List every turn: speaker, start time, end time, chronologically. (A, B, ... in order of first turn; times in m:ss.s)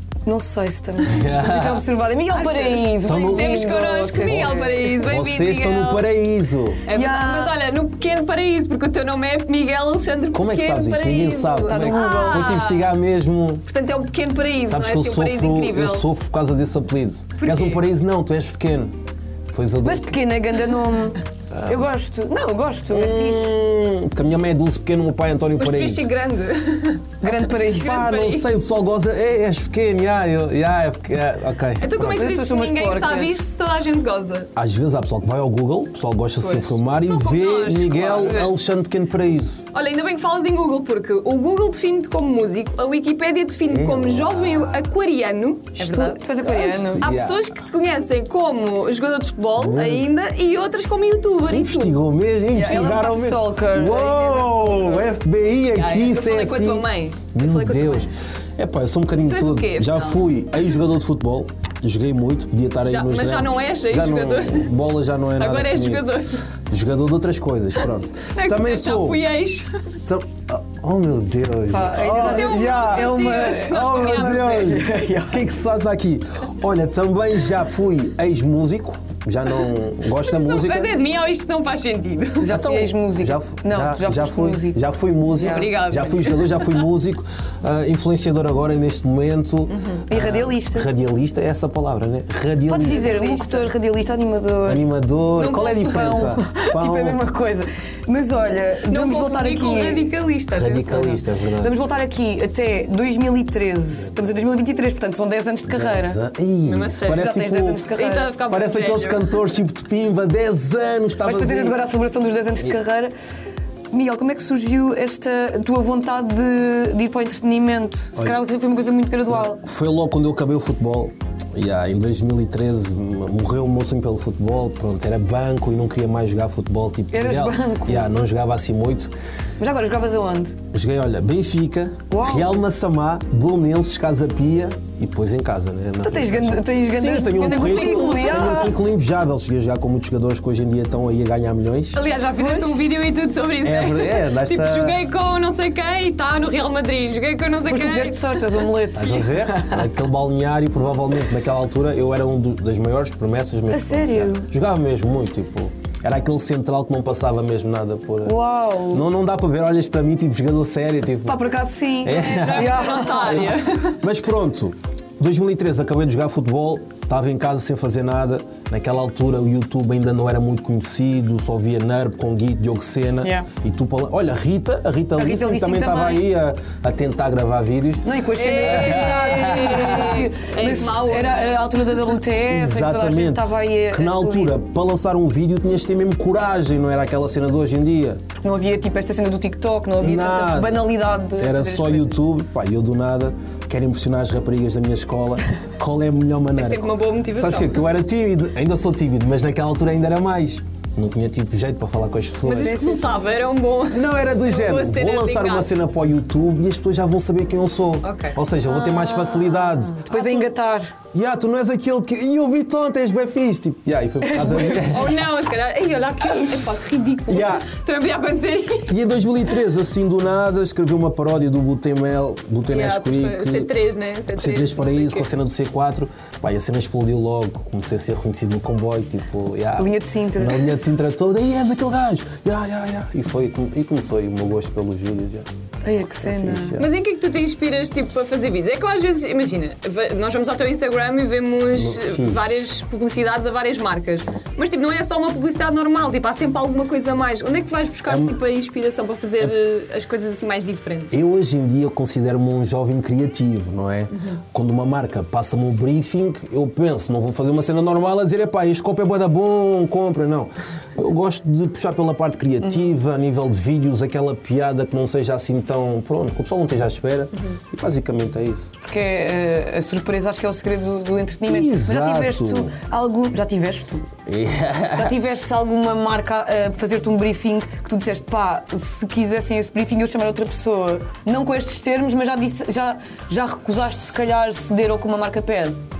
0:00.2-0:04.9 A
0:01.0-0:01.9 B
0:02.3-0:06.1 C
0:03.0-0:03.5 B
0:04.2-0:06.8 B
0:06.8-0:12.9 C
0:06.9-0:07.5 A
0:10.3-0:13.6 B
0:11.7-0:12.6 A
0:13.7-0:16.0 C
0:14.7-0:18.9 B
0:17.4-0:17.8 C
0:19.5-0:20.1 B
0:19.8-0:23.5 A
0:21.5-0:21.8 B
0:22.9-0:26.1 B
0:25.6-0:28.6 C
0:27.2-0:28.0 A
0:27.7-0:32.3 B
0:31.8-0:34.5 C
0:32.0-0:33.4 A
0:34.5-0:39.6 B
0:36.4-0:38.5 C
0:39.7-0:52.0 C
0:43.7-0:44.9 B
0:45.8-0:47.0 A
0:46.4-0:47.4 B
0:49.6-0:50.1 B
0:51.5-1:06.1 B
0:52.5-0:55.0 A
0:55.7-0:58.1 C
0:59.2-1:00.3 C
1:02.8-1:04.7 C
1:05.4-1:06.4 C
1:06.7-1:09.2 B
1:08.3-1:09.8 C
1:10.0-1:21.0 B
1:11.7-1:15.4 A
1:12.0-1:14.8 C
1:20.2-1:22.6 C
1:22.4-1:24.8 A
1:22.4-1:33.2 B
1:25.4-1:26.8 C
1:25.4-1:25.7 A
1:29.7-1:30.0 C
1:30.1-1:30.9 A
1:32.7-1:34.8 A
1:32.8-1:33.7 C
1:34.6-1:37.2 B
1:35.4-1:36.3 C
1:35.9-1:40.1 A
1:38.9-1:41.2 C
1:40.5-1:41.7 B
1:41.6-1:46.2 A
1:44.0-1:44.4 B
1:45.7-1:47.9 B
1:46.7-1:47.2 C
1:47.1-1:48.4 A
1:47.9-1:49.4 C
1:48.4-1:51.8 B
1:51.2-1:53.1 A
1:53.9-1:59.6 A
1:58.2-1:58.4 B
1:59.3-2:09.1 B
2:07.1-2:08.1 A
2:09.6-2:10.6 A
2:10.7-2:22.0 B
2:12.1-2:12.5 A
2:16.0-2:18.8 A
2:17.7-2:18.3 C
2:21.9-2:28.7 C
2:22.3-2:22.8 A
2:23.6-2:25.0 B
2:27.7-2:29.8 A
2:28.9-2:38.4 B
2:33.7-2:34.5 A
2:38.2-2:39.0 A
2:38.9-3:00.2 B
2:41.2-2:43.6 A
2:42.1-2:44.0 C
2:53.2-2:53.5 A
2:55.2-2:56.2 A
2:58.0-3:04.6 A
2:58.3-3:01.6 C
3:02.4-3:08.2 B
3:08.4-3:12.2 A
3:10.0-3:22.8 B
3:16.5-3:17.8 C
3:22.4-3:25.7 C
3:22.5-3:23.1 A
3:23.9-3:30.1 B
3:28.0-3:28.4 C
3:28.8-3:31.0 A
3:30.1-3:30.4 C
3:31.1-3:35.3 B
3:34.2-3:35.0 A
3:34.8-3:38.9 C
3:37.3-3:37.7 B
3:38.9-3:43.7 B
3:42.7-3:45.3 C
3:44.4-3:55.5 B
3:49.8-3:50.7 A
3:55.8-3:56.8 A
3:56.2-3:56.9 B
3:56.8-4:11.1 C
4:01.7-4:02.6 B
4:08.1-4:08.4 B
4:11.1-4:28.7 B
4:28.8-4:34.1 A
4:30.9-4:32.7 B
4:34.2-4:35.2 B
4:34.9-4:45.8 A